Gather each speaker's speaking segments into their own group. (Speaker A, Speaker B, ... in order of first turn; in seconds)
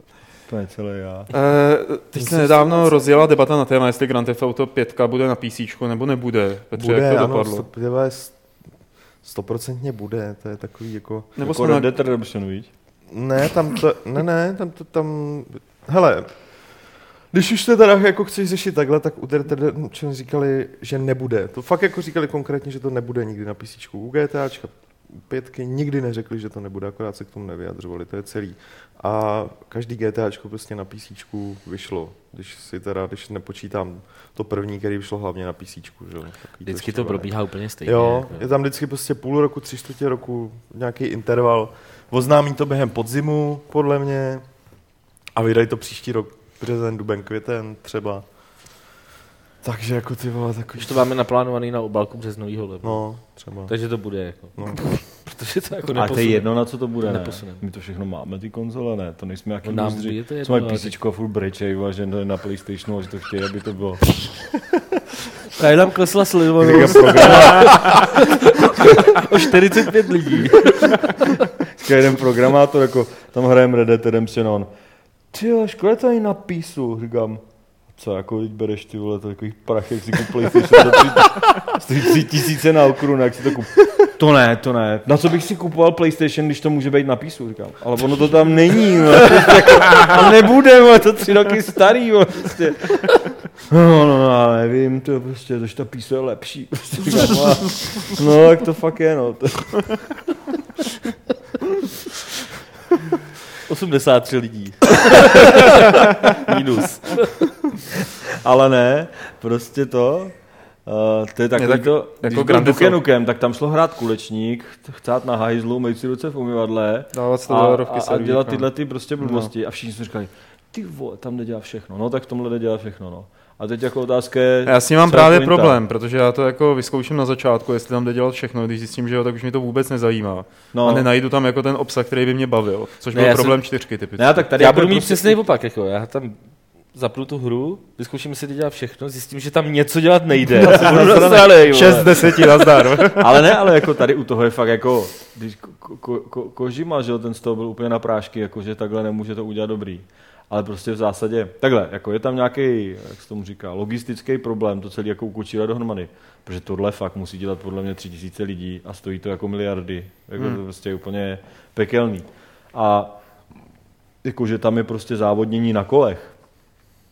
Speaker A: 0.5-1.3, 11.4-12.7, 56.0-64.5, 66.6-68.2, 71.6-74.7, 75.3-77.4, 78.0-100.1, 108.2-110.3, 110.9-125.8, 130.7-131.1, 133.2-133.5, 134.2-135.4, 140.5-142.4, 143.1-163.2, 164.2-166.3
Speaker B: 1.3-7.7, 11.4-11.9, 111.6-113.0, 117.1-118.7, 119.2-119.5, 124.7-134.4, 141.4-143.6
Speaker C: 2.2-3.1, 6.7-8.4, 9.2-11.3, 13.1-44.5, 45.3-48.3, 49.6-51.0, 52.8-53.7, 54.5-55.0
Speaker D: 36.6-38.5, 50.8-53.1, 53.7-57.6, 59.6-61.0, 65.5-71.1, 103.7-107.4, 133.1-133.4, 134.6-136.4, 136.9-142.3